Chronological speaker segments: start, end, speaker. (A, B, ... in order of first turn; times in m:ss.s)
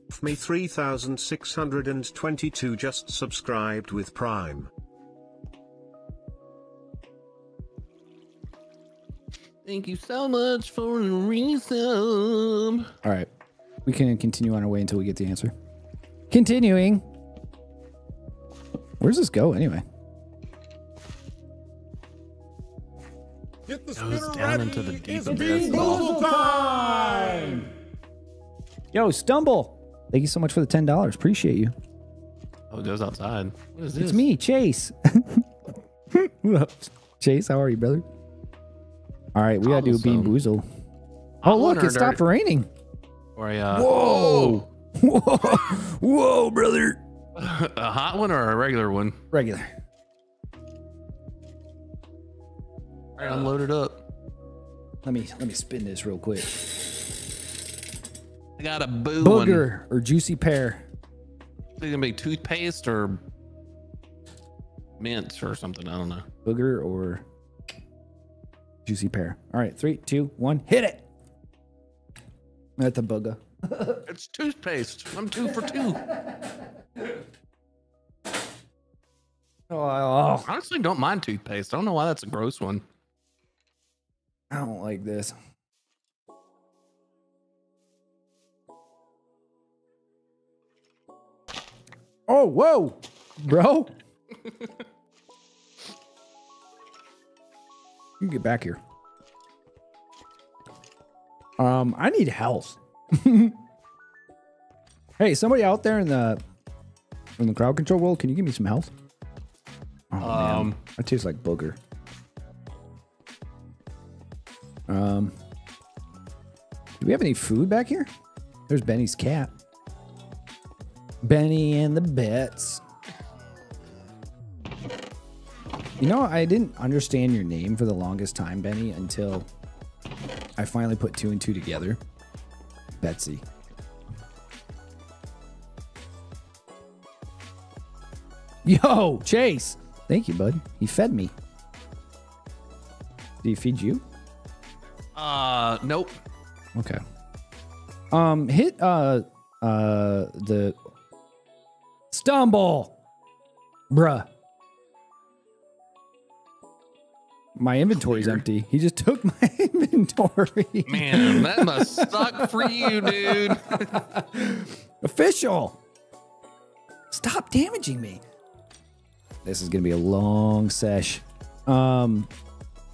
0:00.1-0:04.7 A
0:09.6-0:12.9 B
0:13.0-0:13.3 C
0:13.8-0:15.5 C
0:16.3-0:17.0 C
0:19.0-0:19.8 C
0:23.7-0:27.6 D
0:24.0-0:26.0 B
0:25.2-0:27.6 C
0:28.9-0:31.7 C
0:32.7-0:34.2 B
0:34.0-0:35.5 C
0:36.1-0:38.0 C
0:39.3-0:40.6 C
0:39.6-0:40.4 B
0:41.4-0:42.2 B
0:41.4-0:42.7 C
0:43.4-0:44.6 B
0:43.7-0:47.0 C
0:47.4-0:49.2 B
0:49.3-0:49.7 C
0:53.2-0:54.0 B
0:53.2-0:53.5 C
0:55.0-0:56.8 C
0:58.6-0:59.6 B
0:59.2-1:00.8 C
1:01.8-1:03.2 B
1:05.0-1:06.2 B
1:06.4-1:07.2 C
1:08.8-1:11.0 C
1:12.8-1:14.0 C
1:14.0-1:16.0 B
1:15.5-1:16.3 C
1:19.7-1:20.4 C
1:20.4-1:22.8 B
1:24.5-1:25.3 C
1:32.3-1:33.9 C
1:38.2-1:38.8 C
1:41.6-1:43.6 C
1:45.2-1:46.4 C
1:47.4-1:48.9 C
1:50.1-1:51.8 C
1:50.2-1:50.8 B
1:54.9-1:55.3 C
1:57.0-1:58.1 C
1:58.7-1:59.5 C
2:01.2-2:02.8 C
2:06.0-2:09.5 C
2:10.6-2:12.0 C
2:13.0-2:13.4 C
2:18.6-2:21.3 C
2:23.4-2:24.0 C
2:25.2-2:26.2 B
2:26.7-2:27.0 C
2:28.1-2:30.8 C
2:32.1-2:33.0 C
2:33.9-2:34.3 C
2:37.6-2:45.8 C
2:38.1-2:38.4 B
2:40.9-2:43.9 B
2:47.1-2:48.2 C
2:49.4-2:52.3 C